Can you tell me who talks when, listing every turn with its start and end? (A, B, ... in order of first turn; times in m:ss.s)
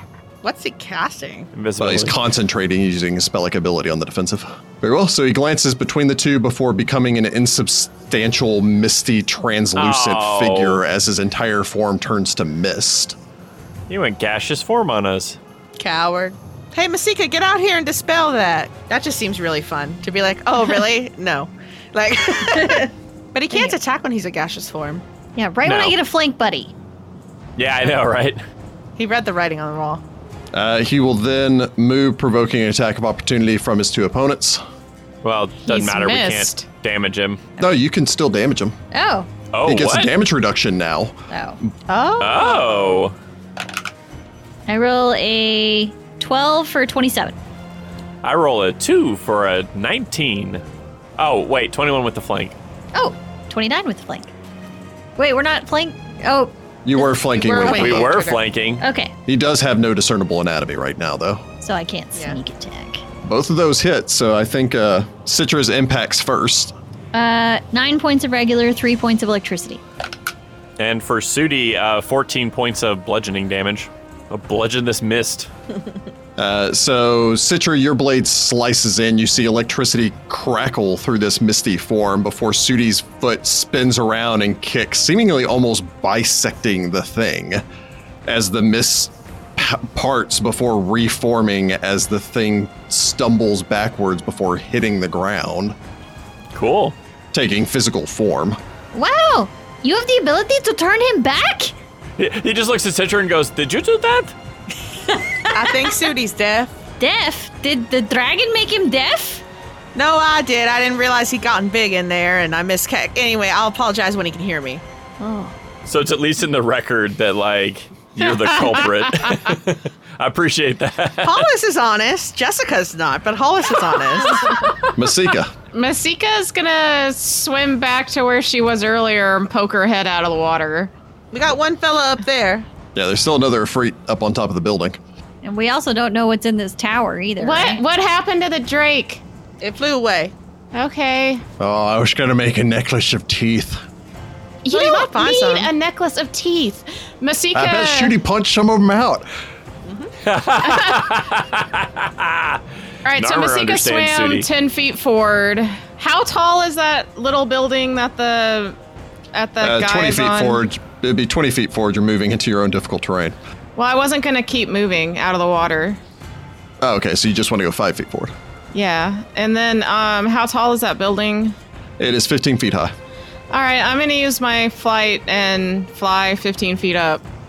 0:00.4-0:01.5 A
0:01.5-0:02.2 B
0:01.8-0:13.2 C
0:09.7-0:10.8 B
0:13.9-0:15.4 B
0:15.8-0:25.0 A
0:25.4-0:26.7 D
0:25.6-0:25.9 B
0:27.6-0:28.4 B
0:29.0-0:30.0 A
0:30.5-0:34.6 C
0:35.2-0:37.4 B
0:35.6-0:36.6 E
0:37.6-0:38.8 C
0:38.9-0:39.3 D
0:39.5-0:40.1 B
0:39.6-0:41.2 C
0:41.3-0:41.6 D
0:41.9-0:43.0 A
0:42.2-0:43.1 B
0:44.7-0:47.3 D
0:48.2-0:50.6 B
0:51.2-0:52.6 B
0:52.9-0:54.3 D
0:55.2-0:56.5 D
0:56.8-0:58.2 C
0:57.3-0:58.4 A
0:57.6-0:58.8 B
0:58.8-0:59.1 D
0:59.3-1:01.4 C
1:01.6-1:03.0 D
1:03.2-1:06.7 C
1:07.1-1:09.8 D
1:10.8-1:15.5 B
1:16.4-1:27.6 C
1:28.3-1:35.8 C
1:36.5-1:36.9 B
1:37.3-1:38.6 C
1:38.9-1:41.7 D
1:42.2-1:44.3 B
1:45.1-1:45.9 D
1:45.5-1:46.7 A
1:47.0-1:49.4 D
1:49.9-1:55.5 A
1:55.9-2:01.5 B
2:01.2-2:04.6 A
2:04.4-2:04.9 E
2:05.0-2:05.5 C
2:05.7-2:10.9 E
2:11.3-2:12.7 A
2:12.9-2:15.0 C
2:15.4-2:17.8 D
2:17.4-2:19.2 E
2:19.6-2:20.3 A
2:20.7-2:21.4 E
2:21.6-2:23.8 C
2:24.6-2:28.2 E
2:24.7-2:25.7 A
2:27.5-2:29.3 C
2:29.9-2:30.1 A
2:30.2-2:32.6 B
2:30.6-2:31.0 E
2:33.0-2:38.8 E
2:33.1-2:34.5 B
2:39.3-2:40.6 E
2:39.6-2:43.4 C
2:43.8-2:46.0 E
2:46.8-2:48.3 C
2:48.7-2:51.6 E
2:52.0-2:52.9 C
2:53.5-2:57.2 E